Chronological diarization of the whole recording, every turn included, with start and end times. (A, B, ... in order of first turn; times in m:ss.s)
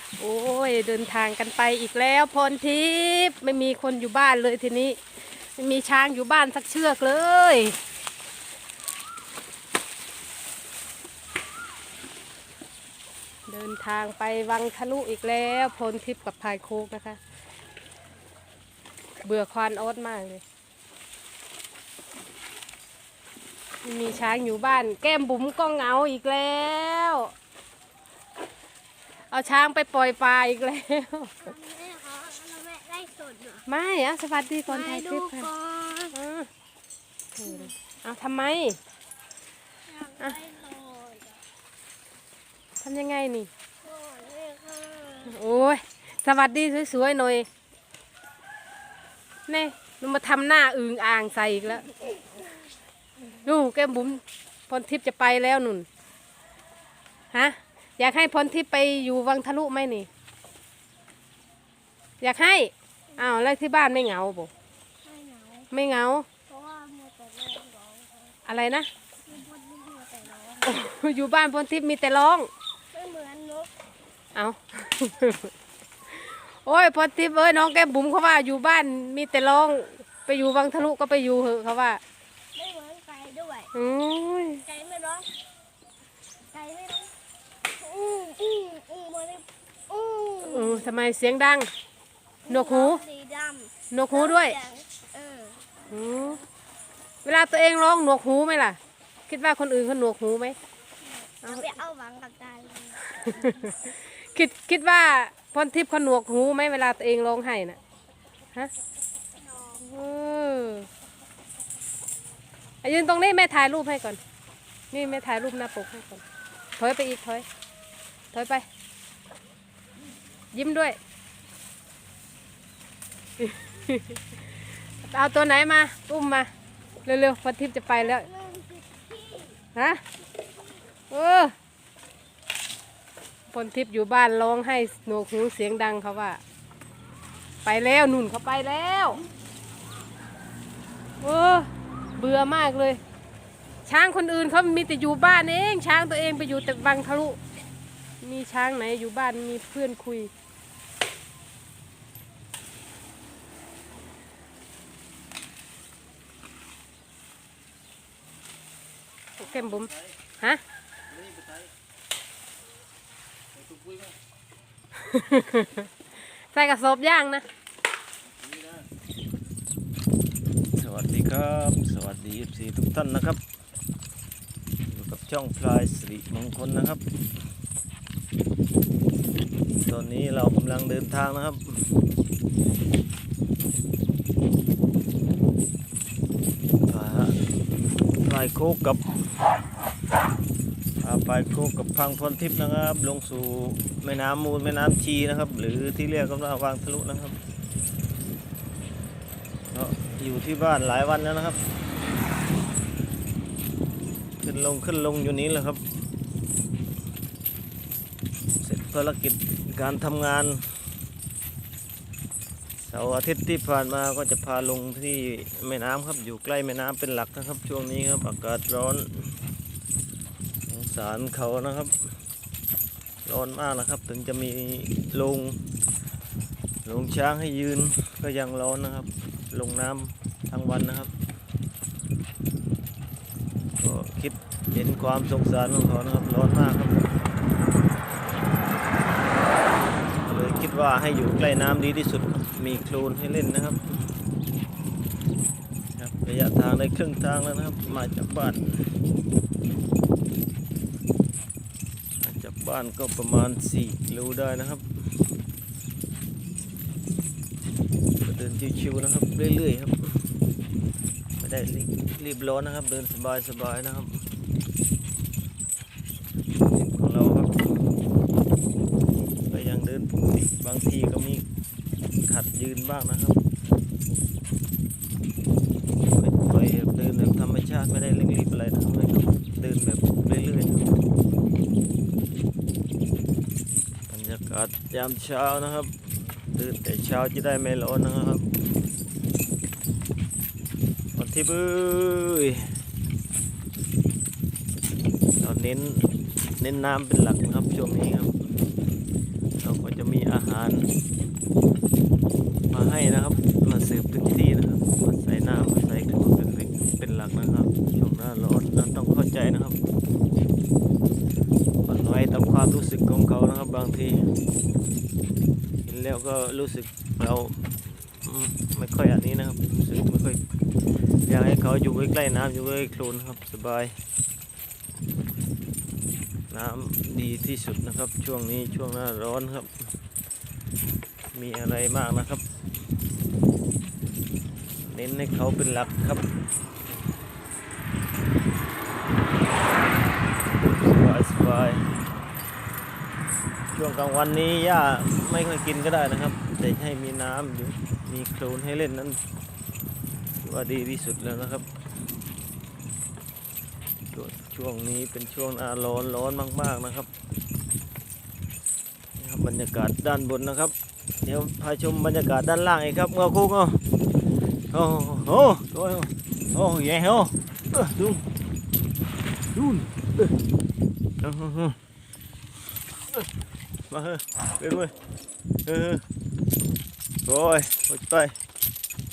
0:00.2-0:07.8 A
0:13.5-0:17.2 A
0:19.2-0:20.4 A
0:23.8-0:27.3 A
0:29.3-0:31.4 A
0:31.4-0:33.6 B
0:33.6-0:35.5 A
0:34.7-0:36.1 B
0:36.1-0:36.5 A
0:37.3-0:38.8 A
0:39.9-0:41.4 B
0:42.8-0:43.5 A
0:43.8-0:45.3 B
0:45.2-0:47.5 A
0:49.5-0:51.9 A
0:53.4-0:55.9 A
0:57.3-1:00.1 A
1:02.2-1:04.5 A
1:05.0-1:05.7 B
1:05.7-1:06.3 A
1:06.5-1:08.4 B
1:08.4-1:08.9 A
1:09.3-1:10.8 B
1:10.6-1:12.5 A
1:12.9-1:13.7 B
1:14.3-1:15.5 A
1:16.1-1:22.0 A
1:22.5-1:23.7 B
1:23.7-1:24.6 A
1:24.6-1:25.3 B
1:26.5-1:27.1 B
1:27.7-1:30.9 B
1:30.4-1:31.7 A
1:32.4-1:35.7 B
1:32.5-1:33.0 A
1:33.9-1:34.6 A
1:35.9-1:36.4 A
1:37.2-1:40.6 A
1:41.2-1:43.5 B
1:41.4-1:41.7 A
1:43.1-1:47.8 A
1:49.8-1:50.9 A
1:52.8-1:54.2 A
1:54.9-1:56.2 A
1:56.8-1:57.4 A
1:58.3-1:58.6 A
2:00.5-2:01.0 A
2:03.4-2:06.5 A
2:07.0-2:08.3 A
2:08.1-2:09.6 B
2:09.7-2:10.0 A
2:11.1-2:11.5 A
2:13.5-2:16.4 A
2:17.6-2:19.2 A
2:21.2-2:23.0 A
2:23.8-2:27.4 A
2:28.2-2:30.3 A
2:39.4-2:40.6 A
2:39.5-2:39.9 C
2:41.1-2:41.7 C
2:43.6-2:44.1 C
2:45.0-2:47.4 A
2:48.4-2:48.8 C
2:50.7-2:53.4 C
2:54.9-2:57.0 C
2:59.8-3:01.9 C
3:06.9-3:07.4 C
3:08.2-3:09.0 C
3:11.0-3:17.4 C
3:19.7-3:21.6 C
3:24.4-3:25.8 C
3:28.6-3:30.8 C
3:32.8-3:39.4 C
3:40.7-3:42.1 C
3:43.2-3:45.6 C
3:46.8-3:51.1 C
3:53.8-3:57.1 C
4:00.2-4:04.0 C
4:06.0-4:08.9 C
4:12.2-4:14.8 C
4:18.2-4:20.3 C
4:21.4-4:24.2 C
4:26.7-4:27.7 C
4:29.4-4:31.4 C
4:32.2-4:33.4 C
4:36.1-4:40.9 C
4:44.1-4:48.5 C
4:51.1-4:52.8 C
4:55.4-4:58.6 C
4:59.6-5:00.9 C
5:02.7-5:09.8 C
5:11.8-5:14.3 C
5:15.8-5:20.4 C
5:21.2-5:24.0 C
5:26.5-5:29.9 C
5:31.3-5:32.4 C
5:34.8-5:36.2 C
5:40.5-5:41.9 C
5:43.7-5:49.2 C
5:50.4-5:51.7 C
5:54.1-5:57.1 C
5:59.2-6:03.8 C
6:04.7-6:08.2 C
6:09.6-6:10.3 C
6:11.2-6:11.8 C
6:13.9-6:14.9 C
6:15.6-6:16.0 C
6:17.2-6:18.4 C